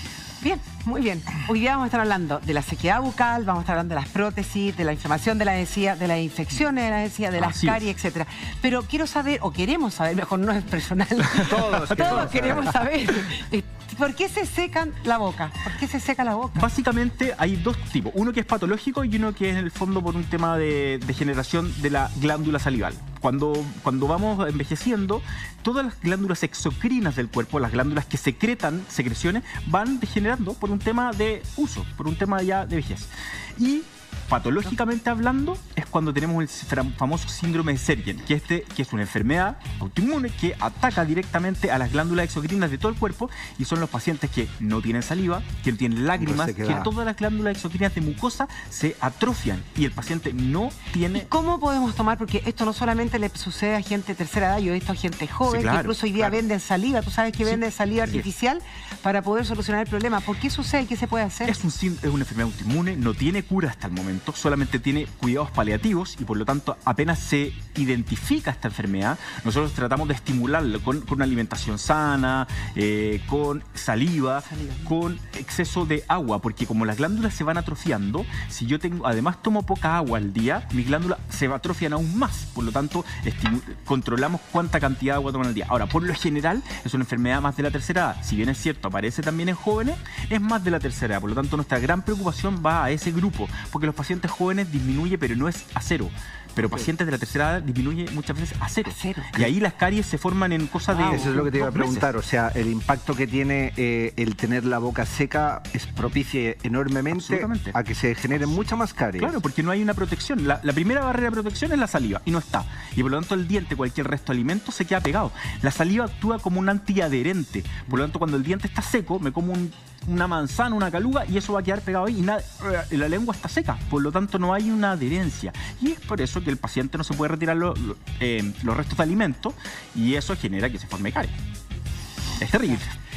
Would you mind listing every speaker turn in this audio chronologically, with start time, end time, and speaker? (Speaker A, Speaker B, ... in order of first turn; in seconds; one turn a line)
Speaker A: 0.4-16.7
Speaker B: 7.4-7.9
Speaker C: 11.3-12.7
Speaker B: 12.0-12.5
Speaker B: 16.6-51.3
Speaker C: 46.2-46.9
Speaker A: 51.1-61.5
Speaker B: 55.5-56.3
Speaker B: 61.5-102.1
Speaker A: 74.5-74.9
Speaker A: 98.9-99.5
Speaker A: 100.9-101.5
Speaker C: 101.1-109.4
Speaker B: 107.1-107.8
Speaker B: 109.2-131.3
Speaker B: 132.4-132.9